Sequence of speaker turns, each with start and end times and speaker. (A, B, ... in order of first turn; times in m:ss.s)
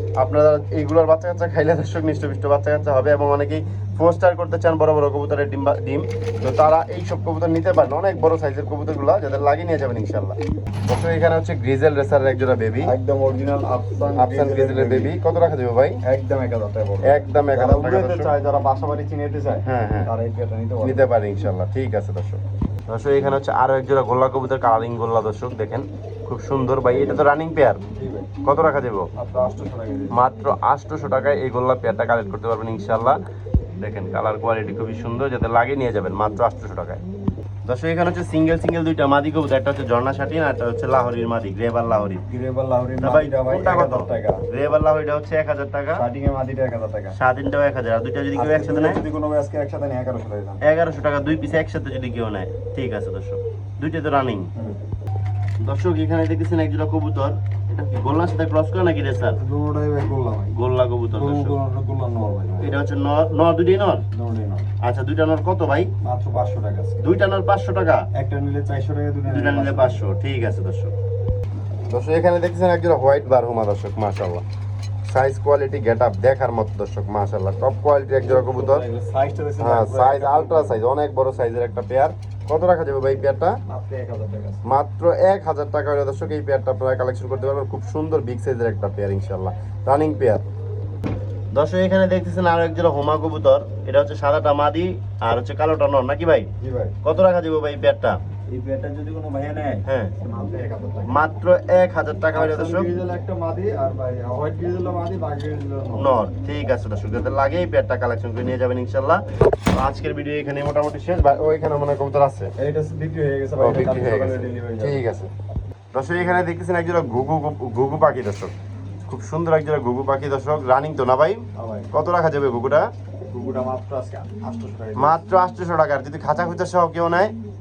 0:00.2-0:12.9 A
0:12.8-0:15.1 B
0:14.2-0:16.0 A
0:16.0-0:21.1 B
0:17.0-0:18.3 A
0:19.6-0:20.1 A
0:20.8-0:27.8 A
0:28.0-0:28.3 B
0:28.4-0:29.1 A
0:29.2-0:30.2 B
0:30.1-0:33.2 A
0:33.8-0:37.0 A
0:37.6-0:42.2 A
0:42.3-0:44.4 B
0:43.0-0:46.0 A
0:45.9-0:47.2 B
0:47.2-0:49.0 A
0:48.4-0:50.6 B
0:50.6-0:54.5 A
0:55.6-0:59.4 A
0:59.4-1:00.6 B
1:00.5-1:01.6 A
1:01.1-1:02.8 B
1:02.6-1:04.0 A
1:04.1-1:04.7 B
1:04.8-1:05.9 A
1:06.0-1:07.0 B
1:07.0-1:08.0 A
1:08.1-1:10.1 B
1:09.3-1:10.9 A
1:11.9-1:14.4 A
1:15.1-1:18.8 A
1:18.2-1:20.8 B
1:19.6-1:23.6 A
1:23.7-1:24.6 B
1:24.6-1:30.4 A
1:31.5-1:36.5 A
1:36.6-1:37.0 B
1:37.0-1:38.2 A
1:38.5-1:41.2 B
1:39.9-1:40.1 A
1:41.1-1:42.9 A
1:42.4-1:46.1 B
1:46.0-1:49.2 A
1:49.7-1:52.5 A
1:52.6-1:55.0 B
1:53.6-1:55.3 A
1:55.9-1:58.5 A
1:59.1-2:02.9 A
2:01.6-2:01.9 B
2:03.3-2:05.2 B
2:05.0-2:07.4 A